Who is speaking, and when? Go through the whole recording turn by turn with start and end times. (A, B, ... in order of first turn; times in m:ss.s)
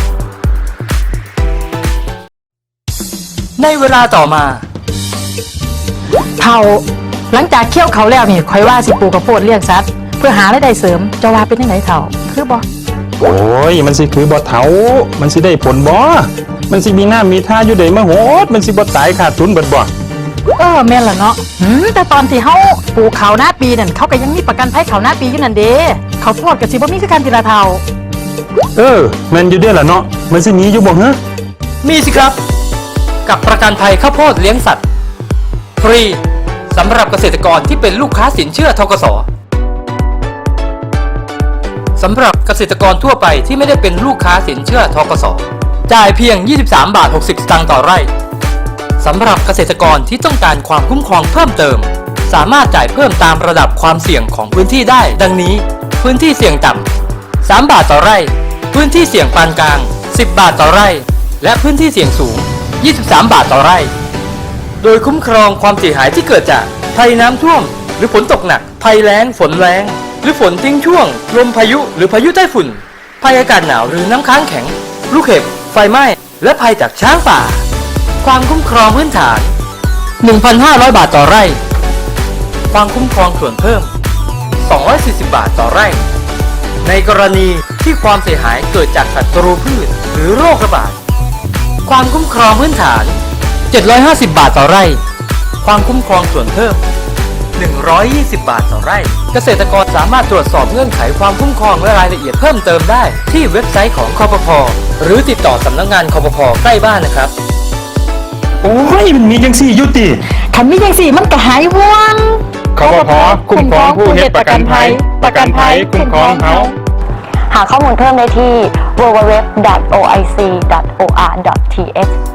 0:03.6-0:04.6 A
0:06.4-0:12.6 B
0:13.2-0:19.9 C
0:20.6-0:27.8 B
0:28.8-0:31.2 C
0:31.8-0:32.4 A
0:33.2-0:34.8 A
0:35.8-0:39.3 A
0:42.0-0:48.1 A
0:49.0-0:56.9 A
0:57.4-1:03.9 A
1:04.8-1:17.6 A
1:18.2-1:19.5 A
1:20.2-1:21.6 A
1:22.7-1:23.9 A
1:24.6-1:26.0 A
1:26.8-1:31.0 A
1:31.8-1:35.0 A
1:35.6-1:36.8 A
1:37.6-1:47.3 A
1:48.6-1:50.2 C
1:50.5-1:56.7 B
1:52.7-1:56.7 C
1:57.5-2:02.1 D